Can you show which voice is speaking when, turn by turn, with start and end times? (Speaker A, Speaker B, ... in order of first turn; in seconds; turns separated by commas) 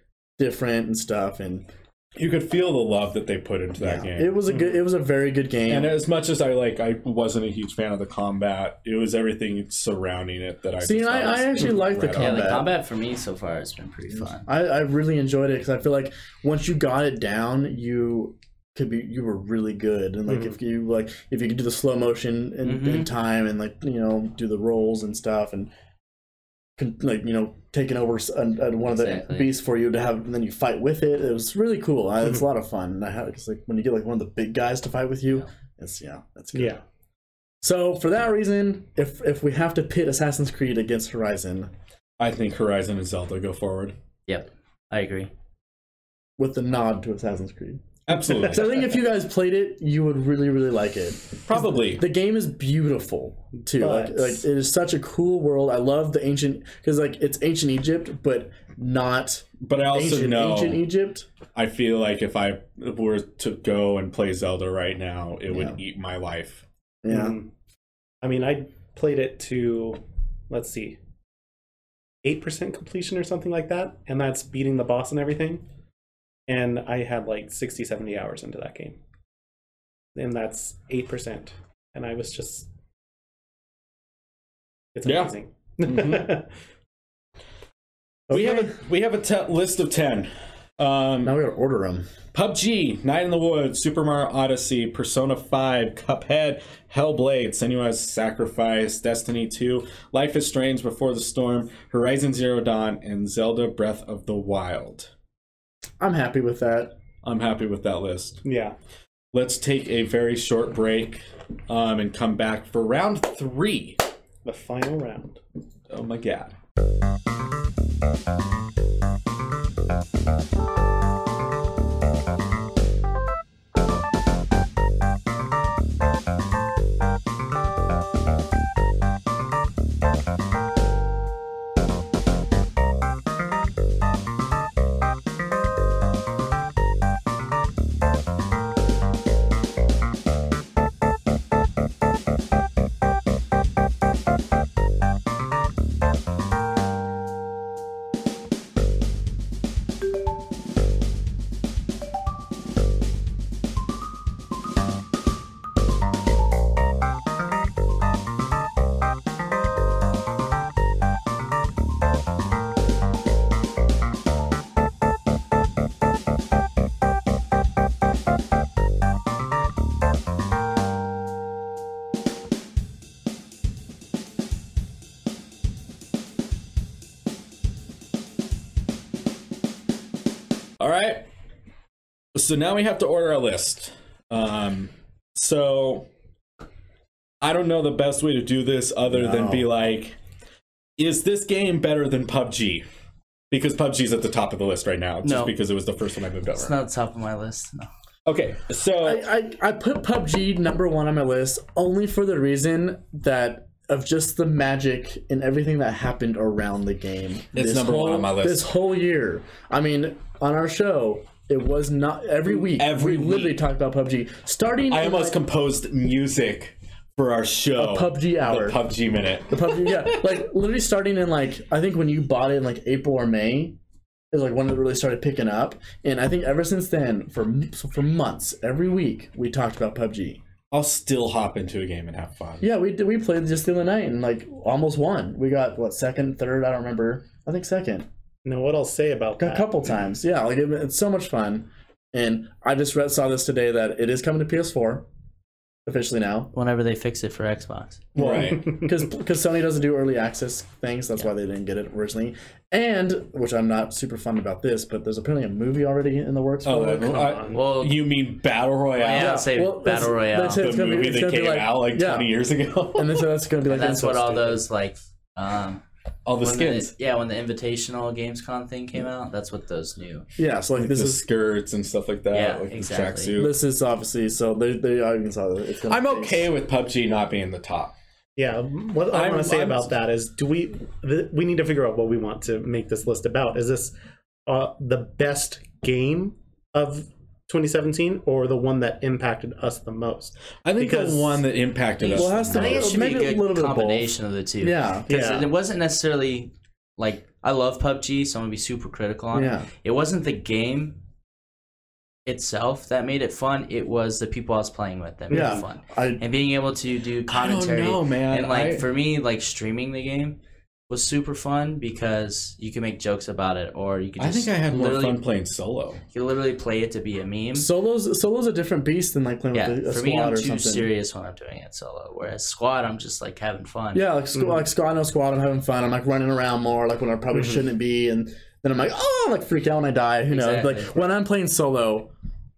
Speaker A: 0.4-1.6, Speaker B: 2.1-4.3, Speaker A: 3.8-5.9, Speaker B: 5.7-12.6, Speaker A: 10.8-12.7, Speaker C: 12.2-14.5, Speaker A: 14.4-25.7, Speaker D: 20.3-20.6, Speaker C: 22.6-23.1, Speaker A: 26.8-36.8, Speaker C: 28.9-29.5, Speaker D: 36.5-36.8, Speaker A: 37.6-41.7, Speaker B: 42.2-43.9, Speaker C: 44.3-45.3, Speaker A: 46.4-47.8, Speaker B: 48.1-48.7, Speaker A: 48.4-61.3, Speaker B: 51.5-52.0, Speaker D: 53.7-54.4, Speaker B: 59.6-60.8, Speaker B: 61.5-66.6, Speaker A: 65.5-65.8, Speaker A: 67.0-67.4, Speaker D: 67.1-67.5, Speaker D: 68.2-71.0, Speaker D: 72.2-75.7, Speaker D: 76.5-79.0, Speaker D: 80.2-82.7, Speaker D: 84.9-86.5, Speaker B: 85.0-86.4, Speaker A: 88.3-88.7, Speaker B: 88.3-91.4, Speaker A: 91.2-92.1, Speaker B: 92.3-105.1, Speaker A: 106.0-106.9, Speaker B: 107.2-108.4, Speaker D: 108.4-108.7, Speaker B: 109.3-114.0, Speaker D: 114.4-115.4, Speaker B: 115.9-116.5, Speaker B: 180.8-181.3, Speaker B: 182.3-186.1, Speaker B: 187.4-190.2, Speaker A: 189.1-189.7, Speaker B: 191.0-192.8, Speaker B: 193.5-196.7, Speaker C: 195.2-195.5, Speaker C: 196.5-197.9, Speaker B: 198.3-199.2, Speaker A: 199.0-215.4, Speaker B: 207.5-208.7, Speaker B: 212.5-213.6, Speaker B: 214.9-220.2, Speaker A: 217.8-218.8, Speaker A: 219.5-223.8, Speaker A: 224.3-230.4, Speaker B: 230.7-232.7, Speaker A: 232.6-238.1, Speaker D: 238.4-239.7, Speaker A: 239.4-245.1, Speaker A: 245.8-246.5, Speaker C: 246.5-248.0, Speaker A: 248.2-257.4, Speaker B: 248.2-248.7, Speaker B: 256.6-259.4, Speaker D: 257.1-257.6, Speaker C: 257.5-258.0, Speaker C: 258.9-260.7, Speaker A: 259.1-262.3, Speaker B: 260.5-263.3, Speaker A: 262.9-264.6, Speaker C: 263.6-265.8, Speaker B: 266.2-266.9, Speaker C: 266.4-270.3, Speaker A: 270.4-271.2, Speaker B: 270.8-273.6, Speaker C: 272.3-273.3, Speaker A: 273.4-276.5, Speaker B: 275.9-277.9, Speaker D: 278.4-283.9, Speaker B: 279.1-279.9, Speaker D: 284.4-291.4, Speaker B: 290.6-293.0, Speaker C: 292.0-301.0, Speaker A: 292.1-295.1, Speaker D: 295.1-295.5, Speaker A: 299.3-299.7, Speaker C: 302.3-310.4, Speaker D: 305.3-305.6, Speaker A: 305.3-306.2, Speaker B: 307.3-308.9, Speaker C: 310.9-315.2, Speaker B: 314.2-316.0, Speaker C: 316.1-317.7, Speaker A: 317.6-320.9, Speaker C: 319.5-324.1, Speaker A: 323.9-332.1, Speaker D: 324.4-324.6, Speaker D: 327.3-327.6, Speaker C: 330.3-331.1